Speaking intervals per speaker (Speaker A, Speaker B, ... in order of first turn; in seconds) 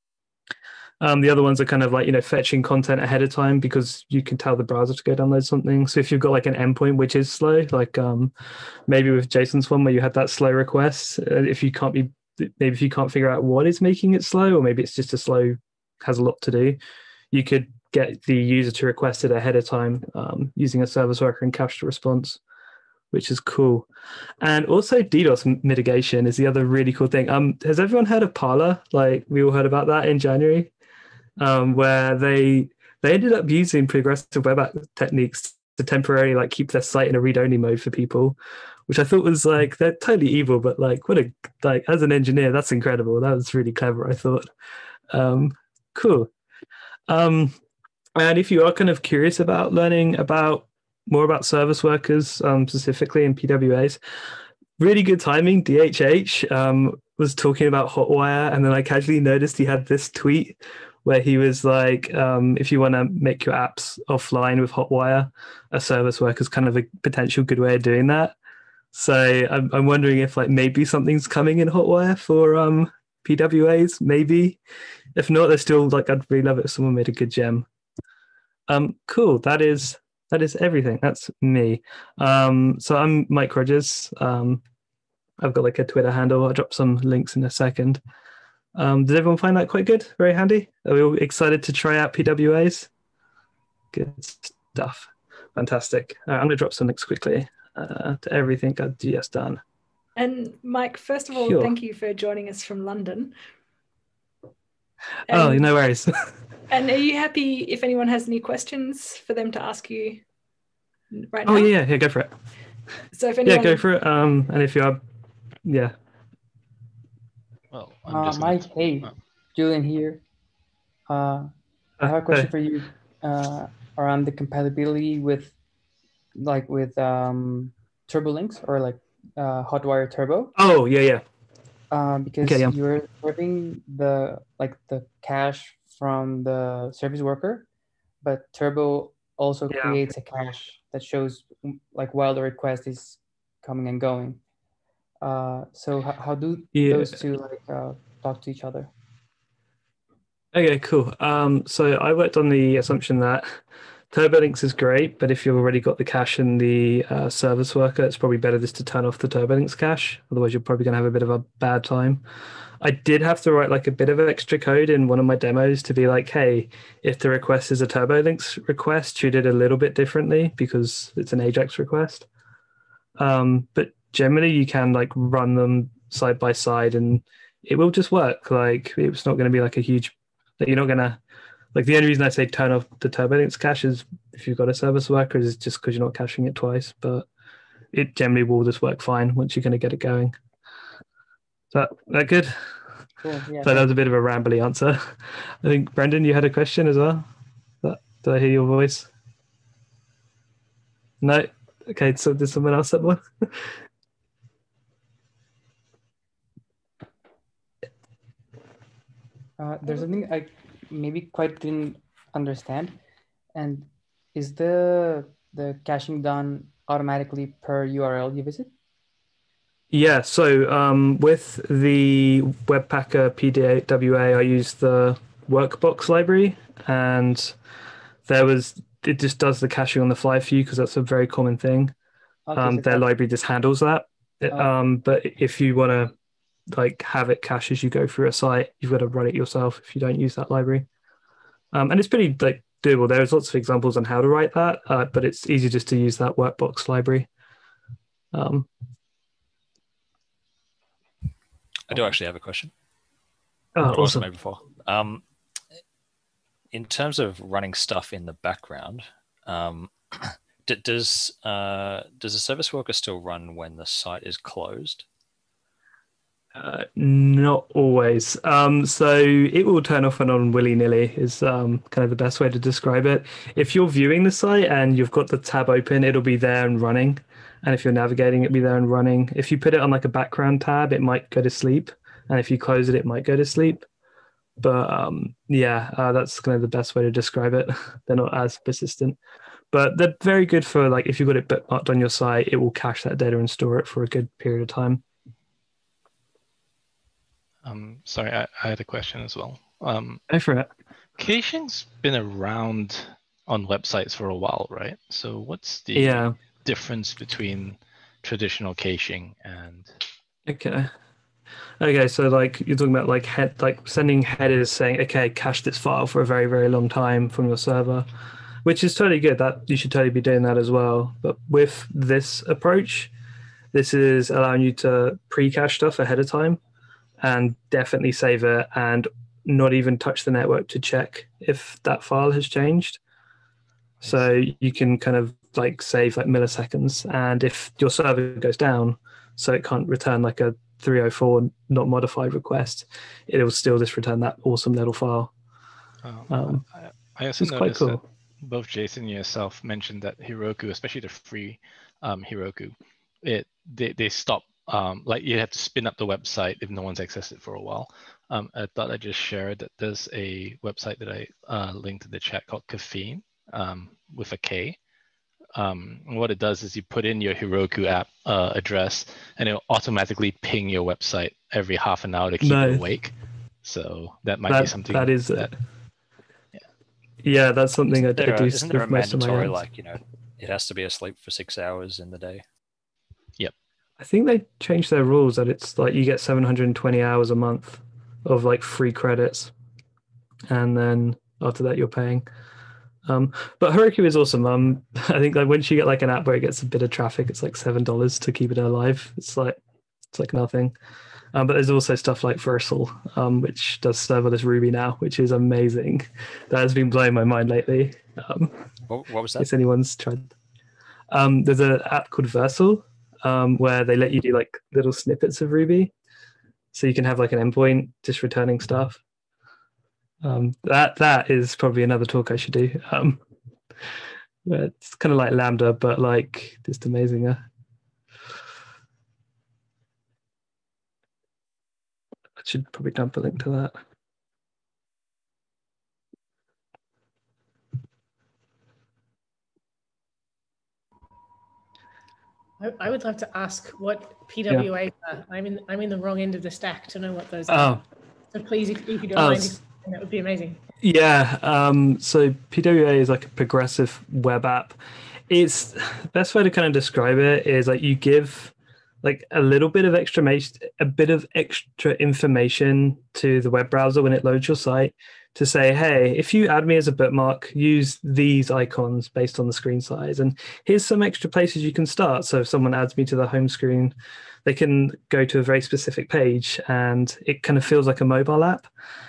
Speaker A: 1.0-8.3, 8.9-16.8, 17.3-22.4, 23.1-23.9, 24.4-30.7, 31.4-38.4, 38.9-44.5, 45.1-46.3, 47.1-47.6, 48.1-54.0, 54.8-68.3, 68.9-74.6, 75.2-77.7, 78.7-84.6, 85.4-88.0, 88.8-92.9, 93.9-99.6, 101.3-101.7, 105.3-106.2, 111.4-112.3, 113.4-115.0, 115.6-115.9, 122.0-122.5, 130.6-131.2, 132.4-132.7, 139.7-140.0, 146.7-147.1, 150.5-153.6, 154.1-162.2, 162.8-172.2, 173.2-181.2, 181.7-187.3, 187.9-190.3, 191.7-192.6, 193.6-197.3, 197.8-199.1, 201.2-203.7, 219.9-227.5, 228.2-231.9, 232.6-236.1, 236.7-240.9, 241.7-247.3, 248.3-248.7, 253.8-254.3, 266.5-283.9, 284.6-289.2, 289.7-295.0, 300.3-300.7, 305.9-306.3, 310.5-310.9, 311.8-318.1, 318.6-323.1, 323.7-326.6, 327.2-333.0, 334.0-345.3, 346.3-346.6, 347.4-348.0, 372.4-372.8, 374.5-375.5, 377.2-379.6, 384.0-389.5, 390.5-392.2, 393.1-399.6, 400.1-400.7, 401.3-408.5, 409.4-410.3, 411.1-415.9, 416.7-419.0, 420.2-423.2, 424.4-427.4, 432.4-433.8, 447.5-447.8, 449.1-449.6, 450.8-454.8, 455.3-473.9, 474.4-478.7
Speaker B: 100.2-103.3, 105.3-105.7, 106.7-110.2, 111.1-111.7, 113.1-113.8
Speaker C: 117.7-119.1, 297.6-300.2, 301.2-309.9, 346.0-364.8, 365.5-375.5
Speaker D: 118.1-120.2, 121.1-121.5, 122.0-125.5, 126.3-130.5, 131.9-137.7, 138.2-144.4, 145.2-148.9, 193.2-193.9, 209.6-213.0, 213.5-218.7, 232.4-233.1
Speaker E: 251.9-252.7, 253.9-255.2, 256.7-265.0, 377.9-382.4, 408.9-409.5
Speaker F: 442.6-447.8, 448.3-450.6